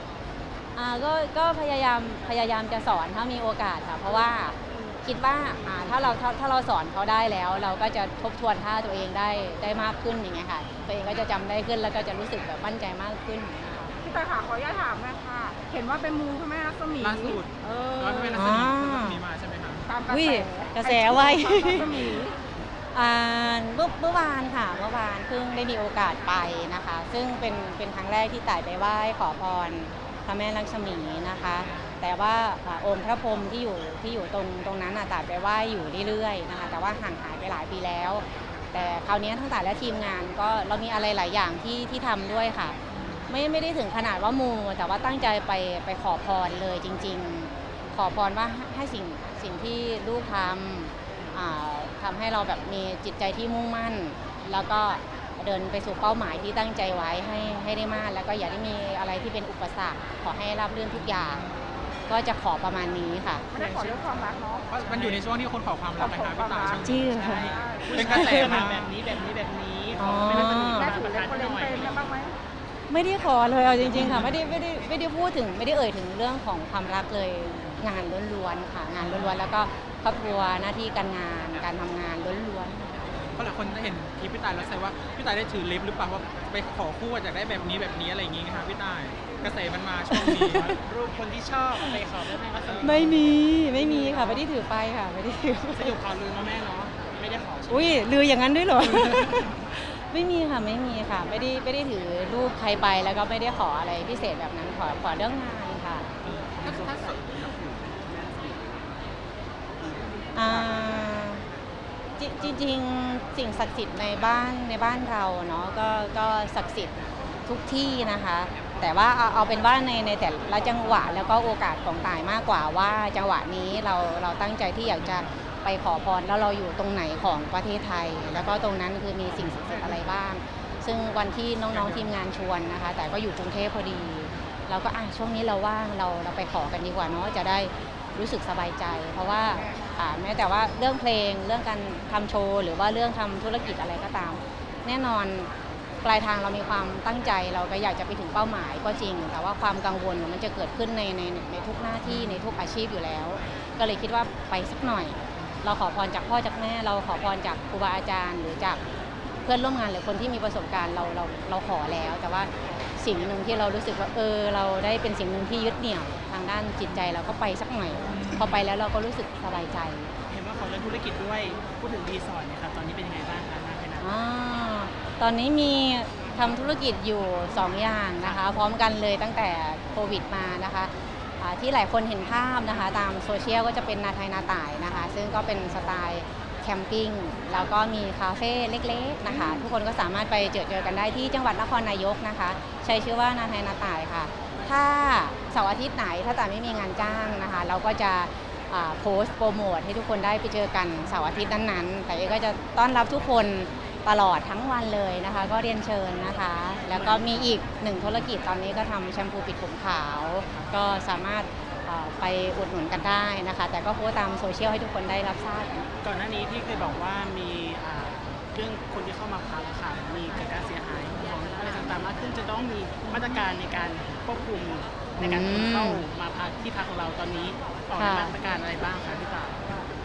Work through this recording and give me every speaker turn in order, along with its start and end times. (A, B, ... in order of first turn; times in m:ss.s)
0:00.7-0:13.9 A
0:14.0-0:18.4 B
0:17.0-0:19.9 C
0:18.3-0:19.2 A
0:19.8-0:22.4 B
0:20.1-0:22.2 A
0:22.9-0:42.8 A
0:43.3-1:01.4 A
1:01.1-1:01.6 C
1:02.1-1:03.4 A
1:03.5-1:04.7 B
1:03.6-1:04.0 C
1:04.7-1:08.9 C
1:06.0-1:06.8 B
1:06.8-1:07.5 A
1:07.0-1:12.1 D
1:07.4-1:08.0 B
1:08.0-1:08.6 A
1:10.0-1:10.9 A
1:10.7-1:12.3 B
1:12.9-1:22.8 A
1:13.9-1:14.3 C
1:17.4-1:17.8 D
1:23.2-1:30.7 C
1:30.1-1:30.7 A
1:30.5-1:34.4 D
1:32.7-1:33.1 C
1:32.8-1:35.9 A
1:35.7-1:38.0 D
1:37.7-1:46.1 A
1:46.2-1:46.8 D
1:46.6-1:49.2 E
1:49.7-1:50.9 E
1:50.4-1:51.4 A
1:52.2-1:56.9 A
1:57.4-2:25.5 A
2:26.0-2:38.8 A
2:39.4-2:50.1 A
2:50.3-2:54.1 D
2:54.0-3:35.9 A
3:26.9-3:27.3 D
3:36.0-3:49.9 D
3:45.2-3:46.0 A
3:48.0-3:48.3 A